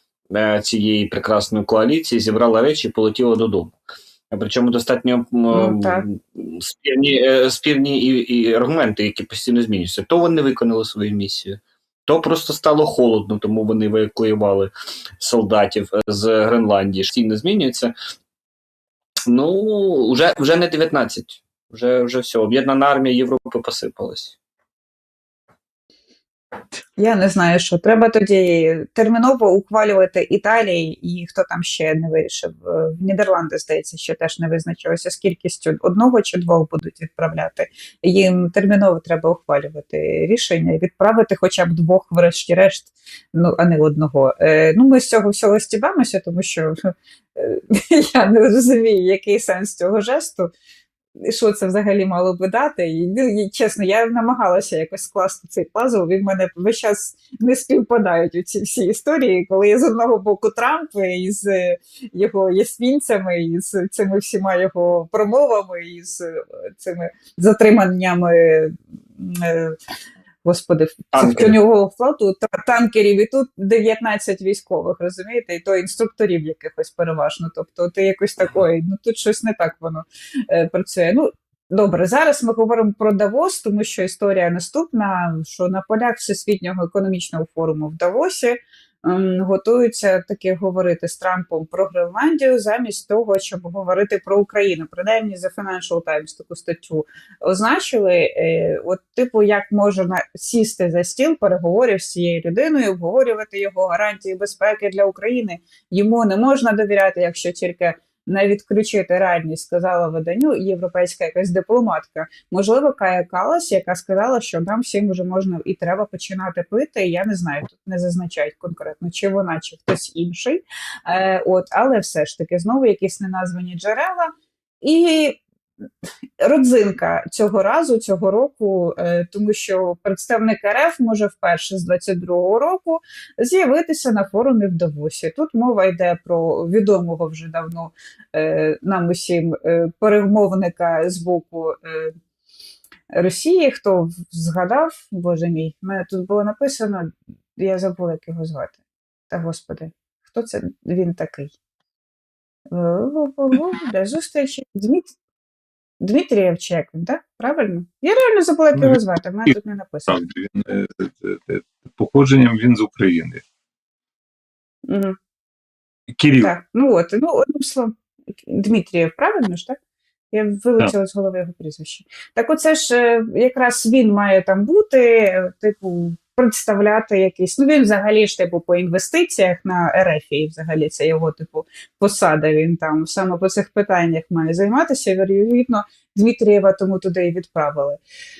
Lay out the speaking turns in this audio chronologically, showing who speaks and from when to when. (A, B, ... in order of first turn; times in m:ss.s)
0:00.3-0:03.7 A
0:04.3-0:17.9 A
0:05.5-0:06.0 B
0:19.3-0:24.3 A
0:27.0-0:50.5 B
0:51.2-1:09.8 B
1:10.4-2:04.3 B
1:11.1-1:11.5 A
2:04.8-2:05.4 B
2:06.4-2:22.1 B
2:23.1-2:28.8 B
2:29.3-2:31.5 B
2:32.7-2:35.1 B
2:36.0-2:40.2 B
2:38.8-2:39.5 C
2:40.1-2:43.4 C
2:44.8-2:45.2 B
2:46.1-2:46.5 C
2:46.4-2:49.8 B
2:50.3-3:08.0 B